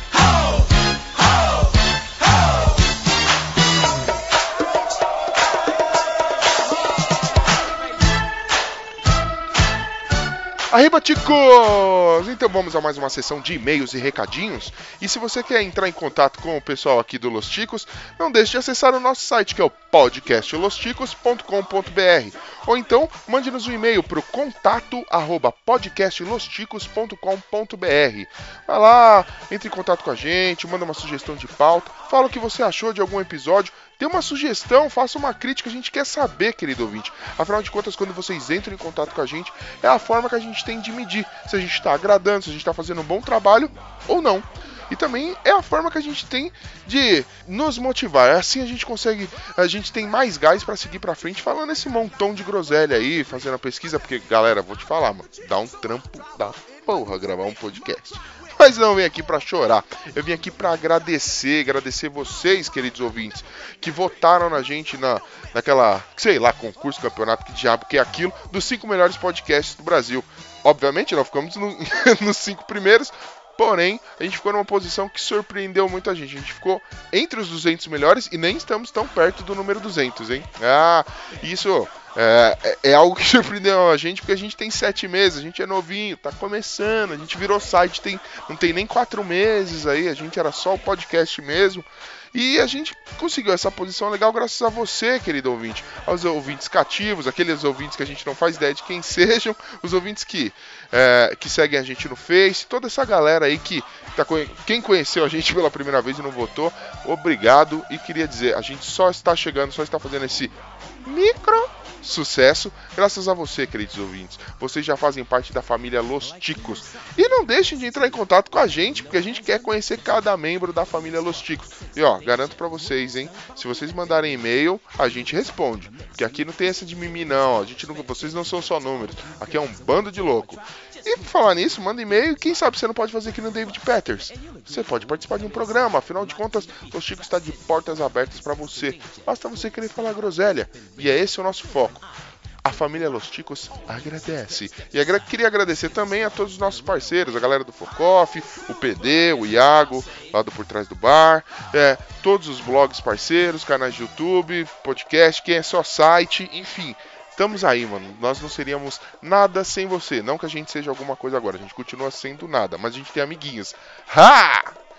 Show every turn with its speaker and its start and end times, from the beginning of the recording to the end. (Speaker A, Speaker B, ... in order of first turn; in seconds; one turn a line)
Speaker A: 10.7-142.0
Speaker A: 142.6-164.8